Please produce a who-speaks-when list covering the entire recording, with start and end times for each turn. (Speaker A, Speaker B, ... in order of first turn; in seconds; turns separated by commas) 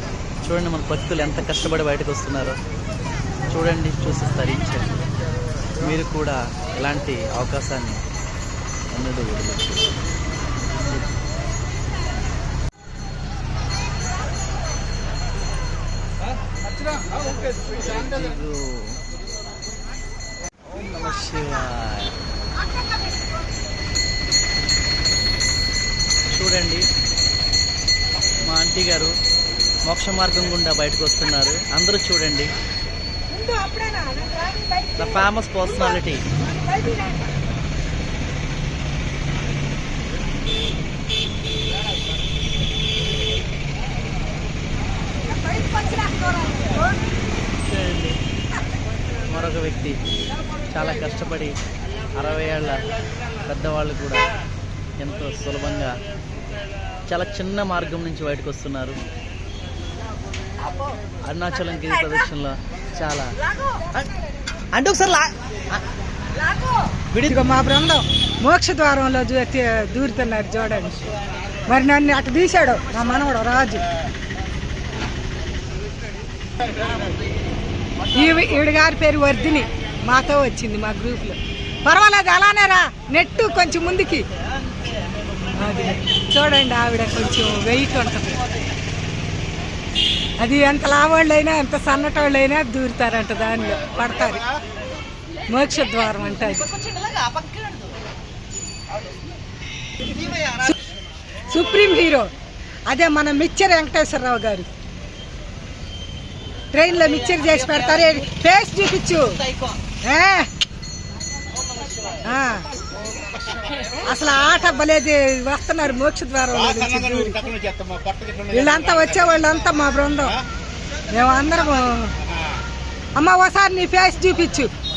Speaker A: 0.4-2.6, Speaker A: 3.5-5.0, Speaker A: 5.8-8.0, Speaker A: 8.9-9.9, Speaker A: 10.7-11.1, Speaker A: 17.8-19.0, Speaker A: 20.7-22.1, Speaker A: 26.3-26.8, Speaker A: 28.5-29.1, Speaker A: 29.9-32.5, Speaker B: 33.3-37.3, Speaker A: 35.0-36.2, Speaker B: 45.2-47.0, Speaker A: 47.6-48.2, Speaker A: 49.3-50.0, Speaker A: 50.7-51.5, Speaker A: 52.2-52.8, Speaker A: 53.5-54.2, Speaker A: 55.0-55.9, Speaker A: 57.1-59.0, Speaker A: 61.3-63.4, Speaker A: 64.7-65.3, Speaker A: 67.1-67.4, Speaker B: 67.2-71.1, Speaker B: 71.7-73.8, Speaker B: 78.1-84.2, Speaker B: 85.5-88.4, Speaker B: 90.4-94.4, Speaker B: 95.5-96.8, Speaker A: 97.0-97.8, Speaker B: 101.5-102.3, Speaker B: 102.9-104.7, Speaker B: 106.7-109.4, Speaker B: 110.0-110.5, Speaker B: 112.2-112.7, Speaker B: 114.0-117.5, Speaker B: 118.5-120.4, Speaker B: 121.1-122.1, Speaker B: 123.2-124.7